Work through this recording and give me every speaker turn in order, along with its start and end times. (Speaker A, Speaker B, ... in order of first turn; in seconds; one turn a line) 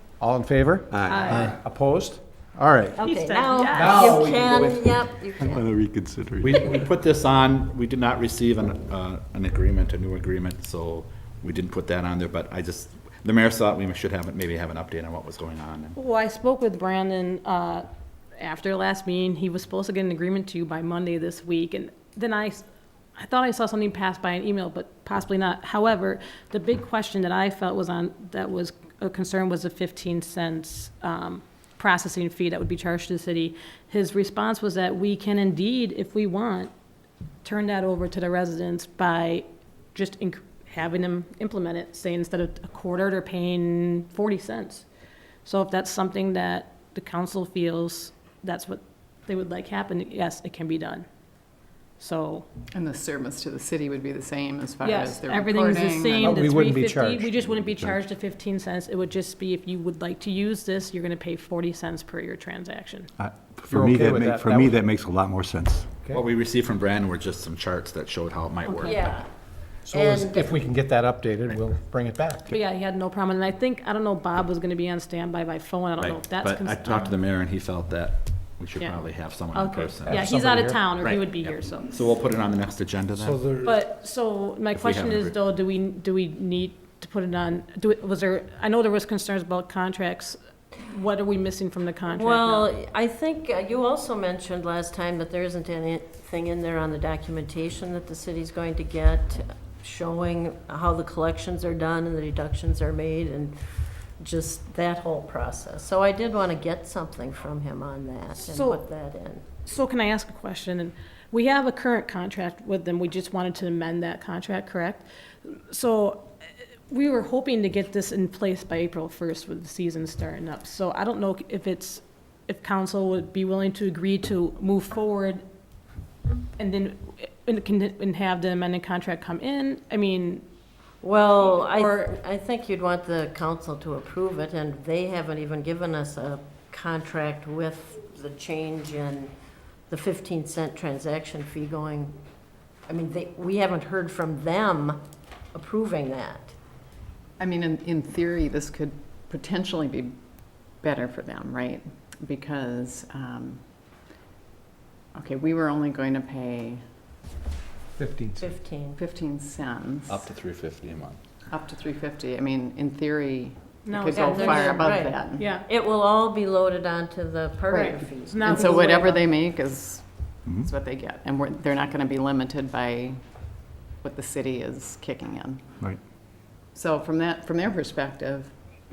Speaker A: 0.2-3.0
Speaker B: 1.0-1.2
Speaker C: 1.1-1.5
Speaker D: 3.0-5.7
Speaker C: 3.0-4.2
Speaker A: 3.7-4.8
Speaker B: 4.5-6.8
Speaker E: 6.4-16.0
Speaker C: 15.9-17.9
Speaker C: 18.4-22.6
Speaker C: 23.2-36.7
Speaker C: 37.4-44.9
Speaker C: 45.5-51.0
Speaker C: 52.0-52.5
Speaker F: 52.7-56.4
Speaker C: 54.8-63.1
Speaker A: 56.2-58.0
Speaker B: 63.2-65.9
Speaker A: 63.7-64.8
Speaker E: 66.1-69.1
Speaker C: 68.7-68.9
Speaker D: 68.8-69.3
Speaker A: 69.9-72.6
Speaker D: 69.9-70.6
Speaker C: 72.5-77.2
Speaker E: 76.0-80.4
Speaker C: 79.5-82.0
Speaker A: 80.1-80.8
Speaker E: 81.0-83.4
Speaker C: 83.6-92.7
Speaker E: 84.7-85.4
Speaker D: 92.2-109.4
Speaker C: 108.5-108.8
Speaker C: 109.7-116.3
Speaker C: 116.9-125.4
Speaker C: 126.6-130.4
Speaker D: 131.0-139.3
Speaker C: 131.5-131.9
Speaker D: 139.9-142.1
Speaker D: 142.9-145.0
Speaker D: 145.5-146.5
Speaker F: 147.4-153.6
Speaker F: 155.2-156.8
Speaker A: 158.0-158.4
Speaker D: 158.4-159.0
Speaker F: 159.0-160.3
Speaker E: 160.1-161.2
Speaker F: 161.5-165.5
Speaker C: 163.8-165.7
Speaker D: 164.1-169.2
Speaker F: 167.7-173.2
Speaker C: 167.7-169.2
Speaker F: 174.0-175.6
Speaker F: 176.7-178.5